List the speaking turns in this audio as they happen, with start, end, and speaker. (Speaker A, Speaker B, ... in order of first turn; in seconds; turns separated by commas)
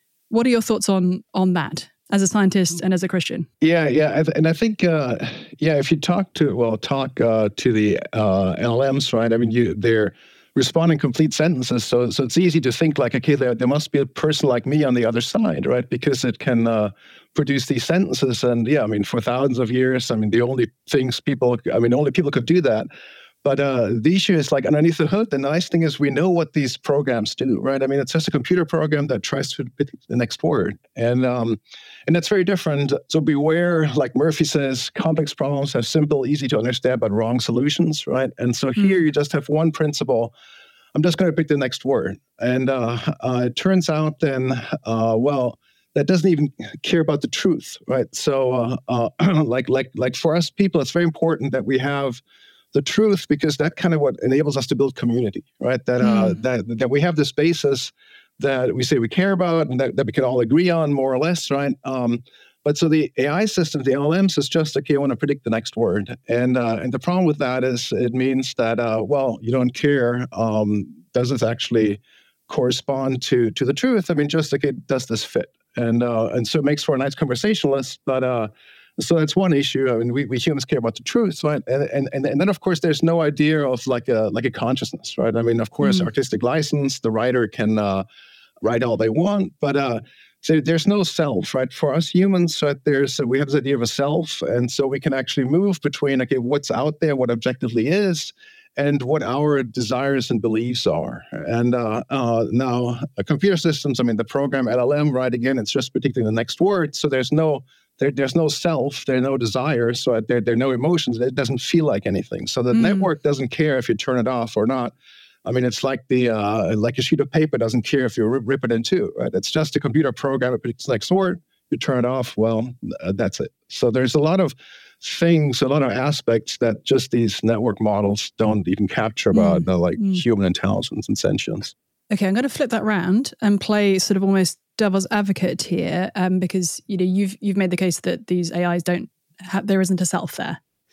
Speaker A: 0.3-3.5, Speaker B: 3.6-22.9, Speaker B: 23.4-40.3, Speaker B: 40.9-52.2, Speaker B: 52.7-88.0, Speaker A: 56.0-56.4, Speaker B: 88.6-114.9, Speaker A: 112.7-113.1, Speaker B: 115.4-131.7, Speaker A: 129.3-130.2, Speaker A: 132.1-140.6